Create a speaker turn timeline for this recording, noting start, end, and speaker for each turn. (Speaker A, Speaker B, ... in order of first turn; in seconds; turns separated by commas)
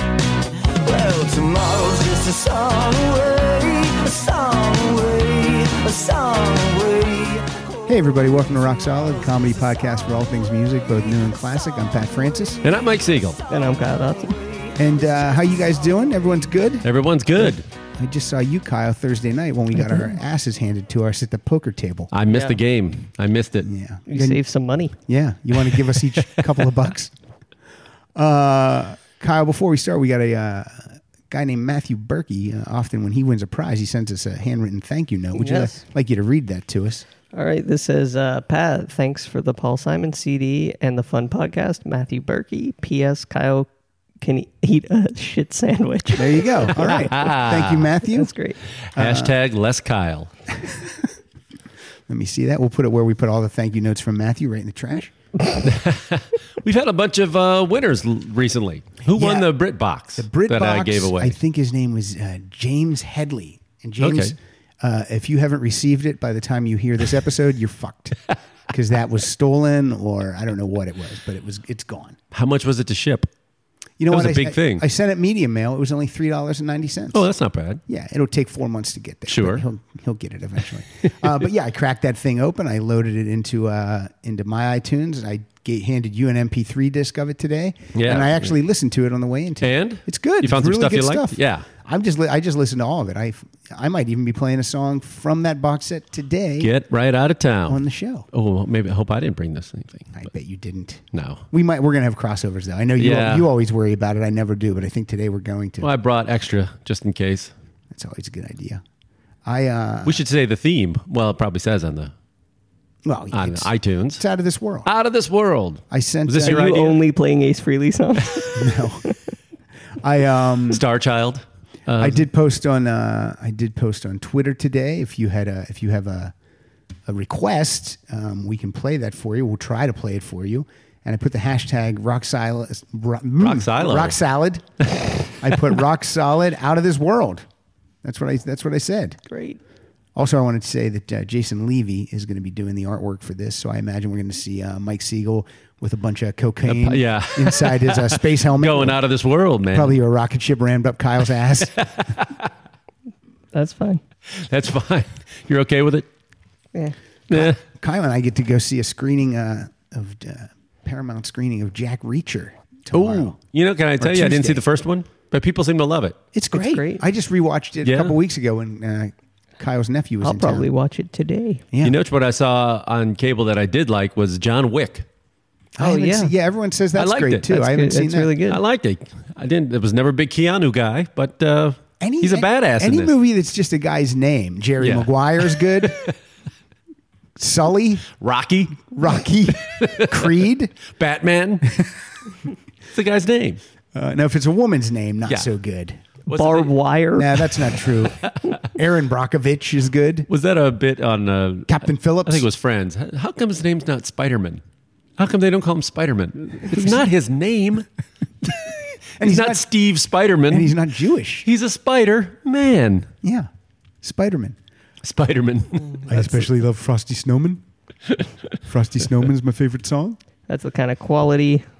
Speaker A: 0.8-7.5, Speaker B: 7.8-12.6, Speaker C: 12.6-13.4, Speaker D: 13.5-14.4, Speaker B: 14.8-22.1, Speaker C: 16.8-17.6, Speaker C: 22.1-23.7, Speaker D: 22.3-22.6, Speaker B: 23.6-24.4, Speaker D: 24.1-24.9, Speaker B: 25.1-27.1, Speaker B: 28.1-37.0, Speaker D: 35.3-35.8, Speaker D: 37.3-43.7, Speaker D: 44.2-46.4, Speaker B: 46.1-48.3, Speaker C: 46.8-47.9, Speaker D: 48.1-48.6, Speaker C: 48.8-50.3, Speaker B: 49.0-49.3, Speaker B: 50.6-51.0, Speaker B: 52.1-55.1, Speaker C: 55.6-61.4, Speaker B: 59.1-59.5, Speaker B: 60.1-72.2, Speaker C: 64.0-64.3, Speaker C: 72.3-73.3, Speaker B: 74.0-77.2, Speaker C: 74.1-74.8, Speaker C: 77.1-77.8, Speaker B: 77.9-96.7, Speaker C: 79.3-79.6, Speaker C: 87.9-88.5, Speaker C: 89.6-91.6, Speaker C: 96.6-97.8, Speaker B: 97.7-98.3, Speaker C: 98.3-100.2, Speaker B: 100.1-105.9, Speaker C: 101.1-101.4, Speaker C: 103.0-103.5, Speaker C: 105.8-107.5, Speaker B: 107.9-108.8, Speaker B: 109.4-110.2, Speaker C: 110.0-112.1, Speaker B: 113.0-114.9, Speaker C: 113.3-114.2, Speaker C: 114.8-117.0, Speaker B: 115.9-116.7, Speaker D: 116.4-118.6, Speaker B: 118.5-119.1, Speaker B: 120.0-120.8, Speaker C: 120.7-122.2, Speaker B: 122.0-126.3, Speaker B: 127.1-134.7, Speaker C: 133.4-134.2, Speaker B: 135.4-137.4, Speaker B: 138.0-139.2, Speaker D: 139.3-139.6, Speaker B: 140.1-149.0, Speaker C: 146.7-150.0, Speaker B: 149.7-151.9, Speaker D: 153.5-154.0, Speaker C: 154.3-156.1, Speaker C: 157.3-157.6, Speaker B: 157.3-163.4, Speaker C: 162.9-166.2, Speaker B: 164.0-164.6, Speaker B: 166.3-170.7, Speaker D: 166.5-167.0, Speaker C: 167.8-168.1, Speaker D: 170.2-171.6, Speaker B: 171.7-172.0, Speaker C: 171.8-175.1, Speaker B: 175.8-178.4, Speaker D: 175.8-176.3, Speaker C: 176.9-177.5, Speaker D: 177.5-178.6, Speaker C: 178.5-183.1, Speaker B: 182.0-186.0, Speaker C: 184.8-185.9, Speaker B: 187.4-188.1, Speaker C: 188.2-188.9, Speaker B: 188.8-190.8, Speaker C: 189.8-190.3, Speaker C: 190.9-191.8, Speaker C: 192.9-193.6, Speaker B: 193.9-196.0, Speaker C: 196.3-196.8, Speaker D: 196.3-197.3, Speaker B: 197.2-200.3, Speaker C: 200.3-204.6, Speaker B: 201.7-202.5, Speaker C: 205.2-207.9, Speaker C: 208.4-210.8, Speaker B: 209.2-209.7, Speaker B: 210.5-211.5, Speaker C: 211.4-213.1, Speaker B: 213.2-213.5, Speaker B: 214.0-214.6, Speaker C: 215.0-216.0, Speaker B: 216.1-217.6, Speaker B: 218.7-220.2, Speaker D: 220.5-221.7